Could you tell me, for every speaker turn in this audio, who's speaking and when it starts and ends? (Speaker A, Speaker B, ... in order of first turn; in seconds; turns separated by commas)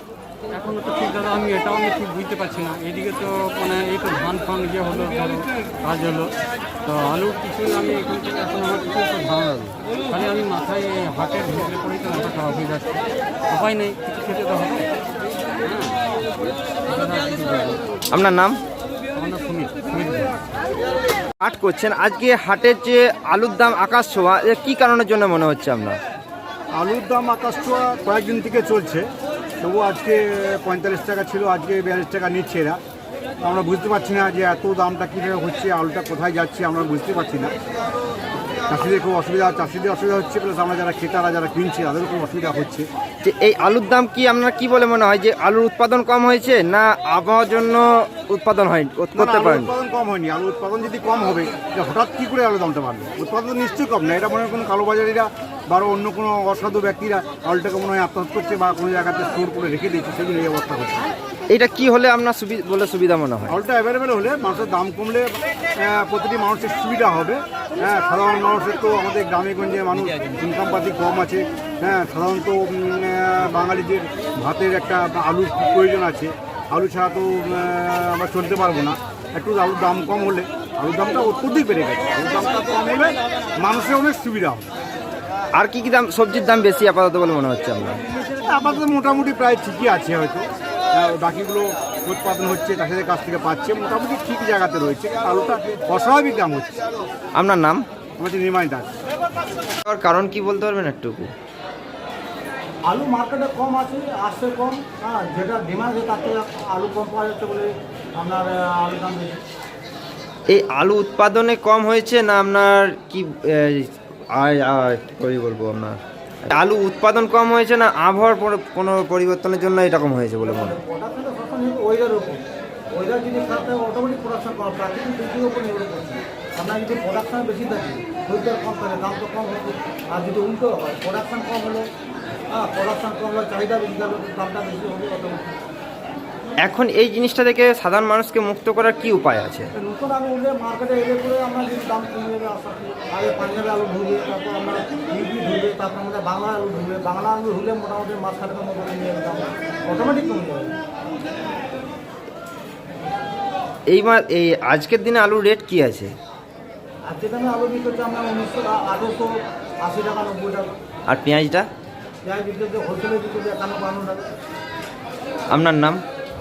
Speaker A: 0.5-6.3, Speaker A: 6.8-14.9, Speaker A: 15.6-16.0, Speaker A: 16.9-17.8, Speaker B: 18.1-18.6, Speaker A: 19.1-20.4, Speaker B: 21.4-26.0, Speaker C: 26.8-29.1, Speaker C: 29.6-32.8, Speaker C: 33.4-37.5, Speaker C: 38.7-42.9, Speaker B: 43.2-49.7, Speaker C: 49.1-61.1, Speaker B: 61.5-63.5, Speaker C: 63.5-84.7, Speaker B: 85.6-88.0, Speaker C: 88.5-96.8, Speaker B: 97.3-97.8, Speaker C: 98.2-98.9, Speaker B: 99.8-101.3, Speaker D: 102.9-109.4, Speaker B: 110.5-120.8, Speaker D: 120.4-122.4, Speaker D: 122.9-131.8, Speaker D: 132.5-135.5, Speaker B: 136.6-139.7, Speaker D: 139.8-150.7, Speaker B: 153.9-156.1, Speaker D: 157.1-159.3, Speaker D: 159.8-160.7, Speaker B: 161.1-161.7, Speaker D: 162.2-164.3, Speaker B: 165.5-166.0